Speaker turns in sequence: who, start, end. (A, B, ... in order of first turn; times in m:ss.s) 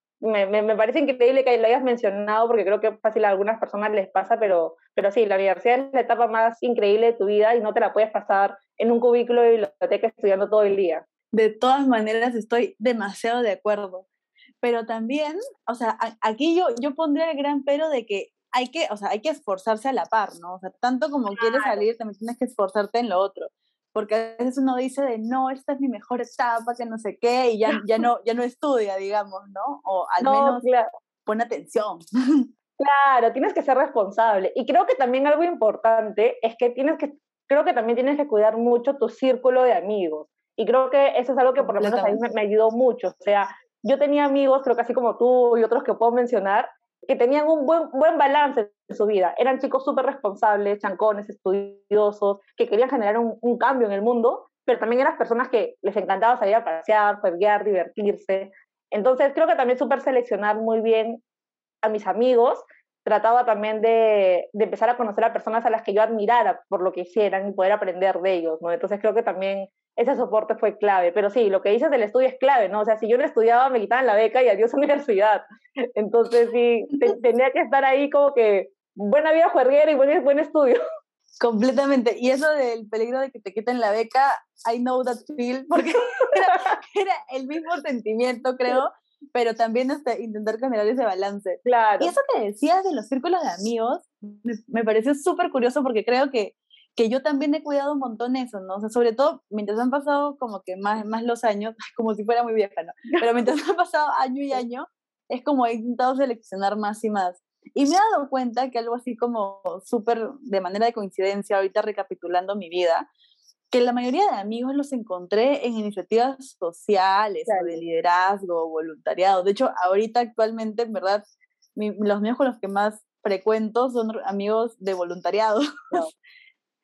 0:00.2-0:11.0 A
0:11.3-0:14.0 B
0:14.6-0:30.6 B
0:21.3-0:21.9 A
0:30.2-0:30.9 A
0:31.2-0:32.5 B
0:32.8-1:01.2 A
0:41.6-0:42.2 B
1:01.8-1:15.4 A
1:16.0-1:20.8 A
1:21.4-1:53.1 B
1:31.6-1:32.1 A
1:53.7-2:01.2 B
1:57.5-1:57.8 A
2:01.8-2:06.1 B